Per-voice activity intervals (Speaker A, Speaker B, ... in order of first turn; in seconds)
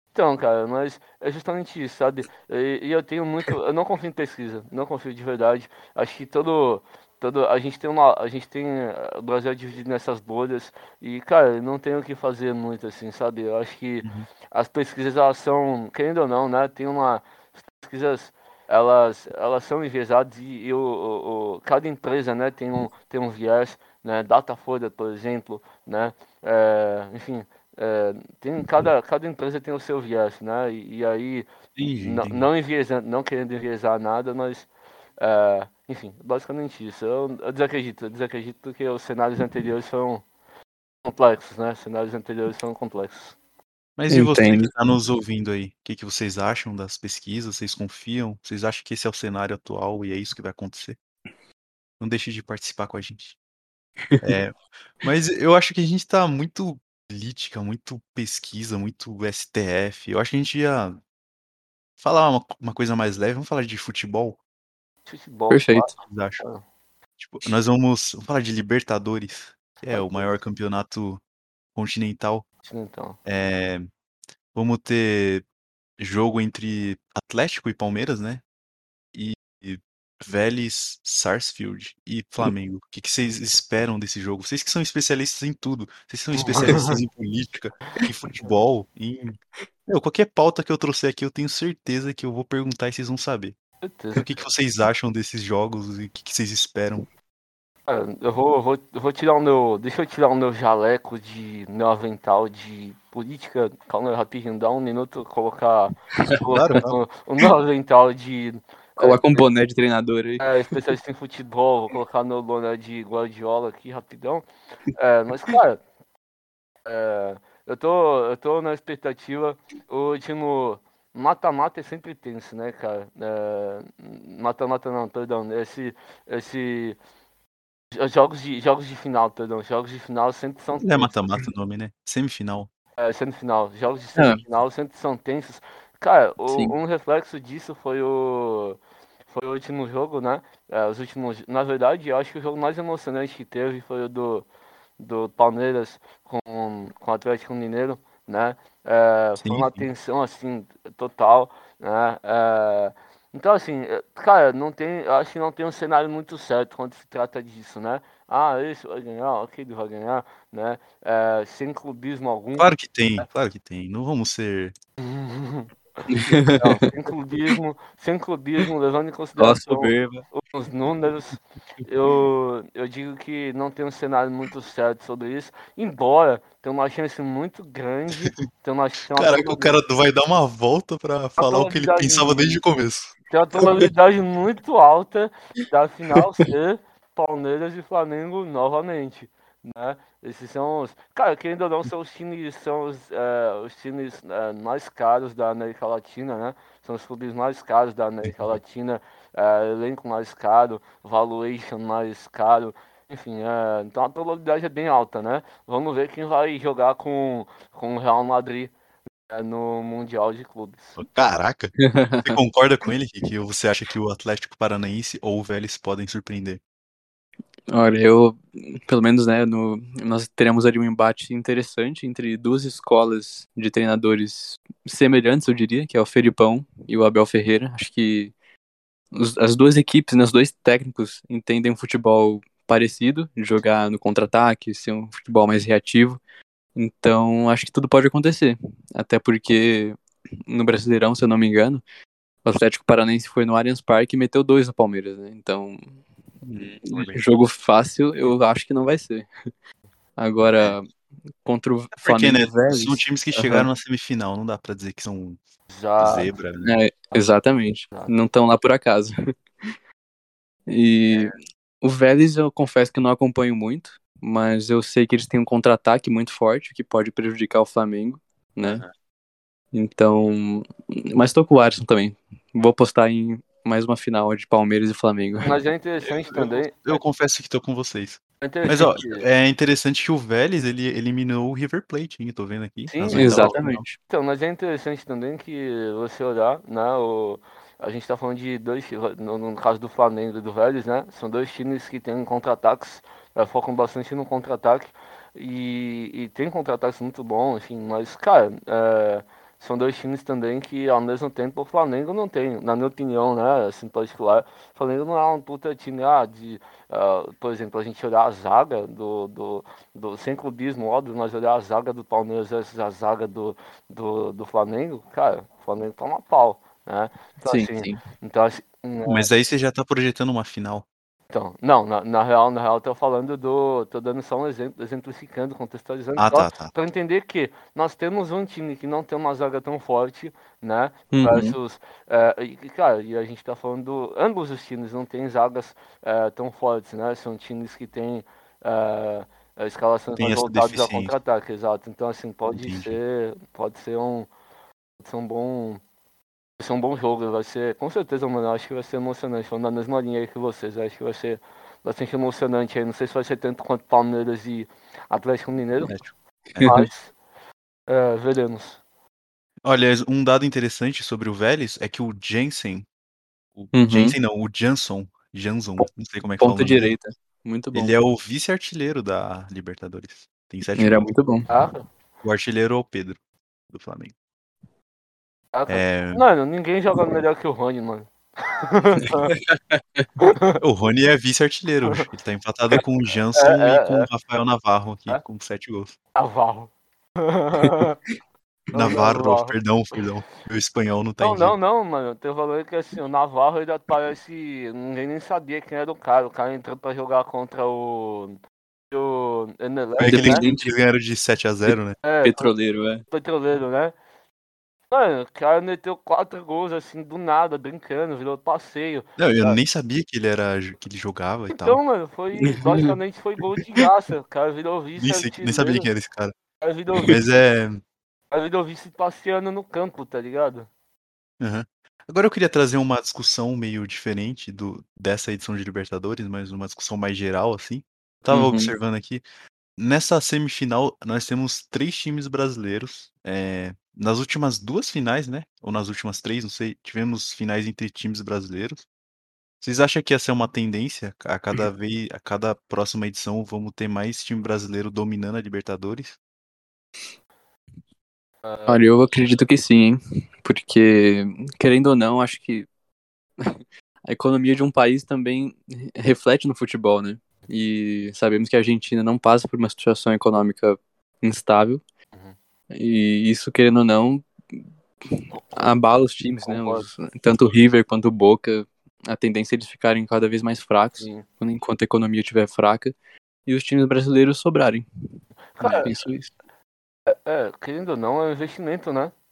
Speaker A: 0.1-17.2, 17.7-31.5, 32.0-34.7, 35.2-40.2, 41.0-43.4, 65.0-66.6, 69.9-70.3, 72.6-73.2, 86.3-87.0, 93.8-94.2, 97.9-109.4, 110.4-115.8, 116.8-127.0, 127.9-131.1, 133.0-138.8, 139.3-144.4, 145.0-163.2, 165.0-165.7, 166.6-179.7, 181.4-182.6, 183.3-208.7, 209.3-211.0, 255.7-256.3, 275.4-277.0, 278.4-279.2, 282.9-319.3, 321.3-344.3, 345.0-345.8, 346.6-355.9, 356.6-357.1, 357.9-358.8, 371.5-371.8, 375.5-379.4, 380.2-380.6, 383.3-384.1, 386.1-388.0, 388.7-389.6, 391.2-398.4, 398.9-400.4, 402.0-402.5, 403.1-403.9, 404.9-409.6, 411.6-415.9, 416.6-417.2, 418.3-420.7, 448.4-448.8, 466.4-466.9, 471.0-471.2, 475.6-475.9, 477.1-479.1
Speaker B: 31.8-32.5, 44.0-51.0, 52.0-53.4, 54.2-61.0, 62.0-64.4, 66.0-66.4, 67.2-71.2, 71.7-72.5, 73.2-73.9, 74.5-75.4, 76.0-78.4, 79.1-93.5, 94.1-97.1, 106.5-107.0, 130.8-132.7, 149.4-149.9, 162.6-164.7, 179.2-183.1, 211.0-216.6, 246.4-247.2, 251.9-255.4, 256.0-256.7, 276.0-283.8, 319.1-320.9, 326.1-326.7, 340.1-341.1, 342.5-342.9, 355.8-356.7, 359.6-362.9, 363.5-366.9, 367.7-371.1, 372.2-374.1, 375.7-376.2, 380.6-385.9, 388.7-391.5, 400.0-402.0, 409.2-411.8, 415.0-416.3, 417.0-417.8, 421.4-429.2, 429.8-438.9, 439.6-446.2
Speaker C: 44.1-44.7, 65.5-65.9, 109.0-110.5, 134.2-134.4, 166.1-166.8, 169.4-170.2, 211.8-212.4, 217.7-228.3, 229.1-236.2, 236.7-241.8, 242.4-245.9, 246.9-249.3, 250.2-250.9, 251.4-253.7, 256.6-259.1, 260.7-268.8, 269.7-275.5, 283.1-283.9, 317.4-318.0, 331.1-331.5, 356.6-356.9, 363.7-364.1, 366.4-367.9, 370.8-371.5, 379.5-379.8, 400.0-400.7, 401.7-403.0, 412.4-412.9, 428.3-428.7, 448.7-452.7, 453.4-461.8, 462.7-472.9, 473.4-474.9, 475.8-476.3